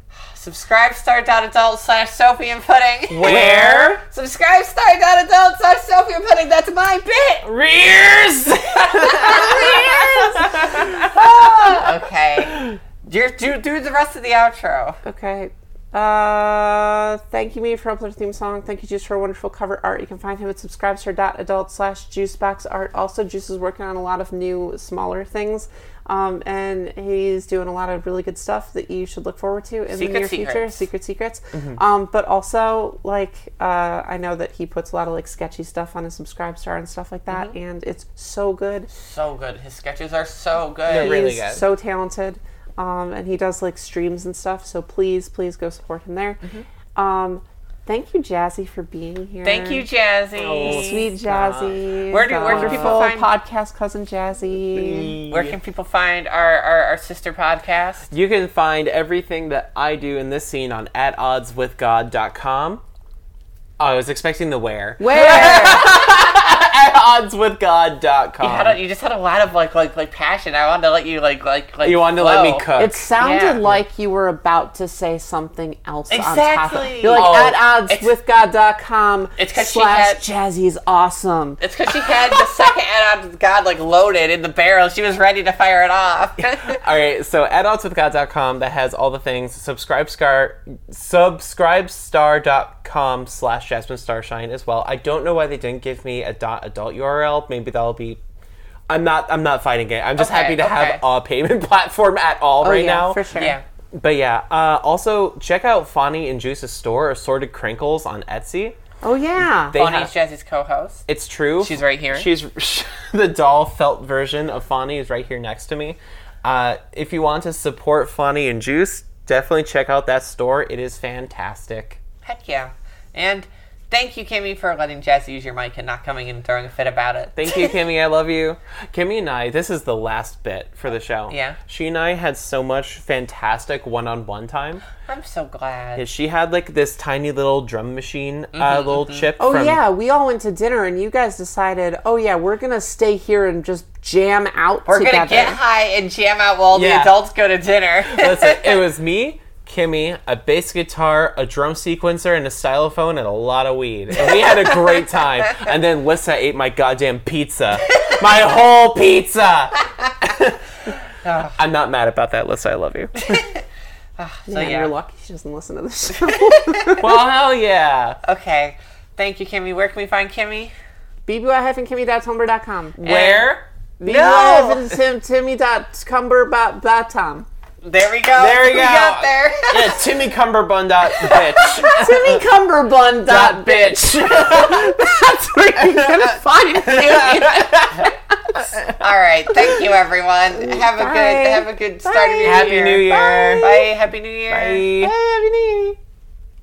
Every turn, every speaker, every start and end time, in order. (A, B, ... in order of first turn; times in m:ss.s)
0:00.3-0:07.5 A
0:03.1-0:04.0 B
0:07.4-0:11.9 B
0:08.8-0:15.0 A
0:12.5-0:12.8 B
0:15.0-0:38.9 C
0:29.9-0:30.8 A
0:31.5-0:31.8 B
0:37.3-0:37.6 A
0:38.9-0:41.2 A
0:40.9-0:41.6 B
0:40.9-0:46.4 C
0:47.0-0:49.9 C
0:49.4-0:51.1 A
0:50.4-0:51.8 B
0:50.6-0:55.2 C
0:52.1-0:53.3 A
0:52.4-0:53.1 B
0:54.7-0:55.6 B
0:55.3-0:58.1 A
0:58.1-1:02.8 B
1:03.8-1:08.8 B
1:05.0-1:05.9 C
1:08.4-1:13.7 A
1:11.8-1:13.1 B
1:12.8-1:21.6 C
1:16.1-1:17.4 A
1:17.1-1:17.6 B
1:19.4-1:20.2 A
1:21.6-1:26.8 A
1:26.6-1:38.2 B
1:38.9-1:43.2 B
1:40.2-1:41.0 A
1:42.6-1:43.6 C
1:43.4-1:43.6 A
1:43.9-1:48.8 B
1:49.0-1:49.8 C
1:49.4-1:50.1 B
1:49.7-1:51.1 A
1:51.1-2:02.0 B
1:51.6-1:52.3 A
2:02.2-2:07.6 A
2:07.4-2:14.8 B
2:11.3-2:11.6 A
2:15.1-2:16.0 A
2:16.0-2:19.8 B
2:18.5-2:19.3 A
2:19.4-2:25.6 C
2:24.9-2:28.8 A
2:26.7-2:27.2 B
2:28.1-2:40.6 B
2:34.3-2:35.0 A
2:37.9-2:38.2 A
2:41.2-2:41.6 A
2:41.6-2:43.4 B
2:43.2-2:43.6 A
2:44.2-2:44.9 A
2:44.5-2:47.2 C
2:46.2-2:46.9 A
2:47.0-2:48.2 B
2:48.2-2:50.7 A
2:51.3-2:53.0 C
2:53.0-2:53.6 B
2:53.0-2:54.9 A
2:54.0-2:57.5 C
2:57.8-3:00.0 A
2:58.4-3:02.4 B
3:01.2-3:01.8 A
3:01.6-3:08.6 C
3:03.3-3:09.0 B
3:08.9-3:14.9 A
3:10.6-3:13.9 C
3:12.4-3:13.7 B
3:14.5-3:15.1 B
3:15.0-3:16.0 C